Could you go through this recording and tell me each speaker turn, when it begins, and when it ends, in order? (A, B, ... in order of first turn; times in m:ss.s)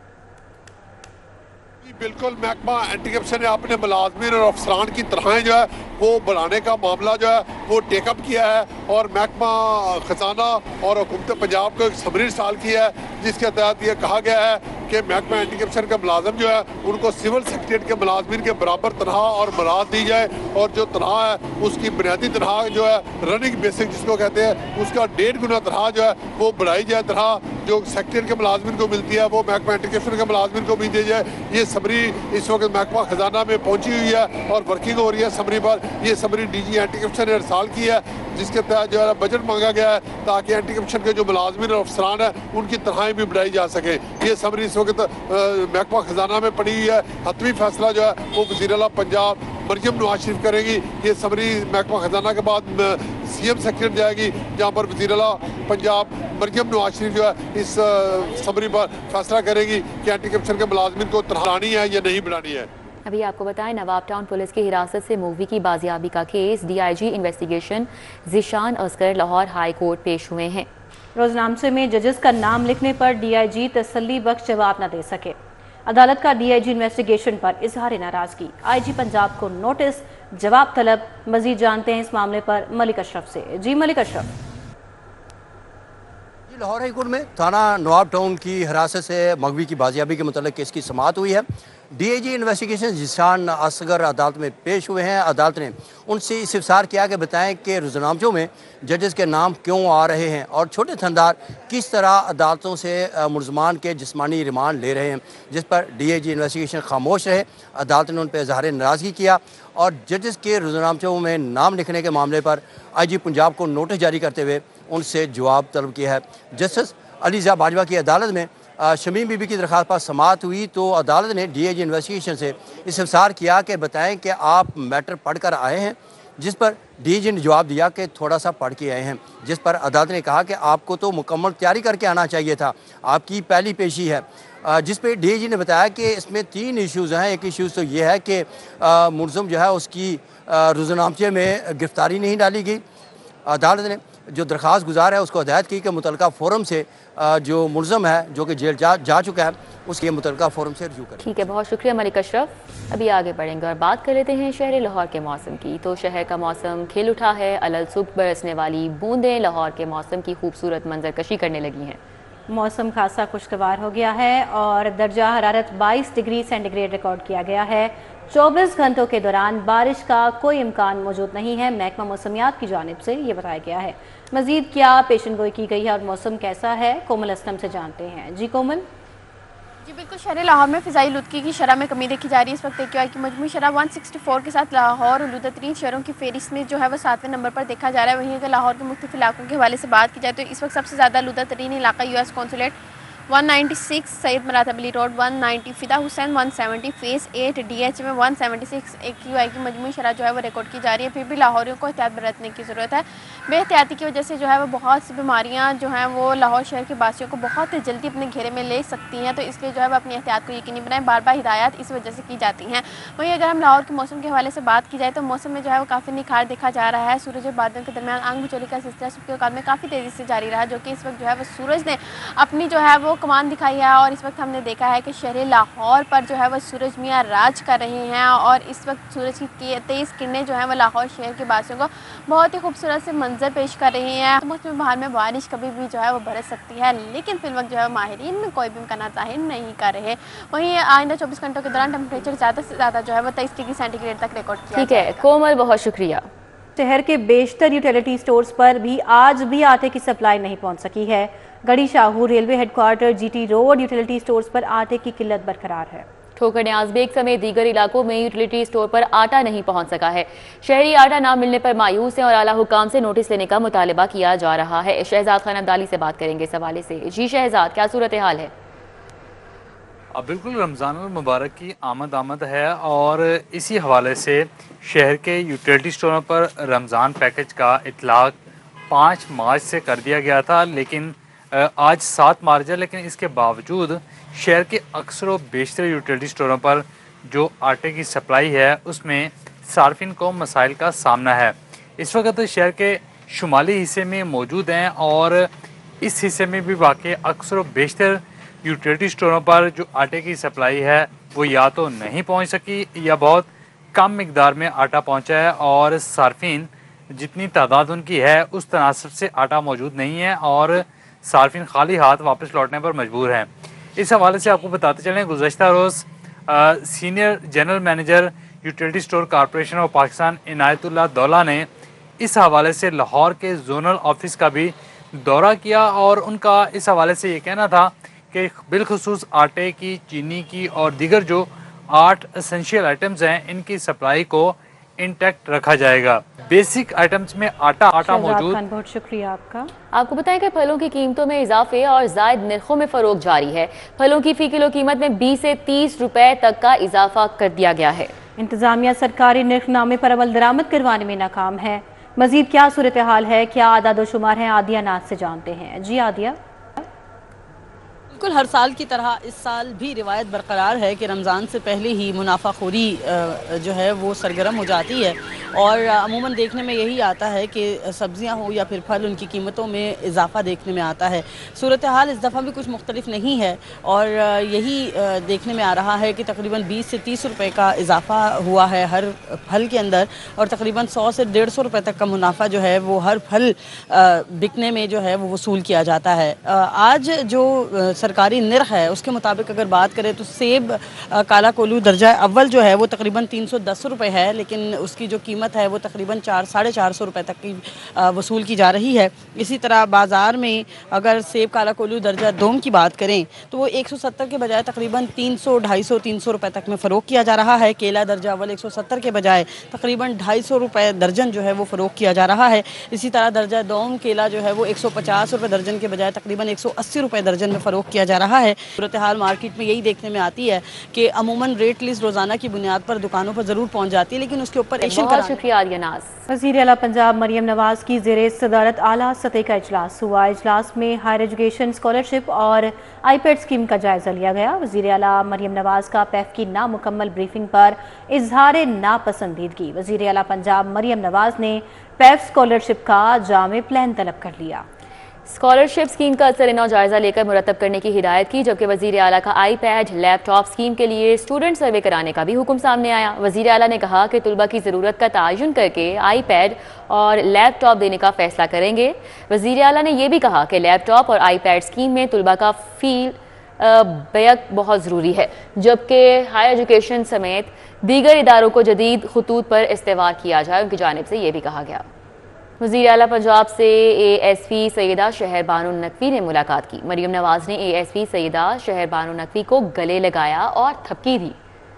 0:01.8-1:02.7 A
1:03.1-1:10.7 B
1:11.2-1:24.3 C
1:26.5-2:22.8 D
2:23.5-2:31.5 D
2:31.2-2:42.0 B
2:42.5-2:58.8 C
2:59.9-3:12.8 E
3:13.3-4:05.3 E
4:04.7-4:06.2 B
4:06.8-4:16.1 C
4:16.4-4:28.5 B
4:30.1-4:38.4 F
4:38.9-4:55.5 F
4:56.0-5:21.7 F
5:22.2-5:38.6 F
5:38.0-5:39.7 C
5:39.9-5:48.1 B
5:48.4-5:56.8 C
5:58.1-7:05.4 G
7:04.8-7:06.1 B
7:06.3-7:24.6 C
7:25.3-7:51.8 B
7:52.6-8:01.4 B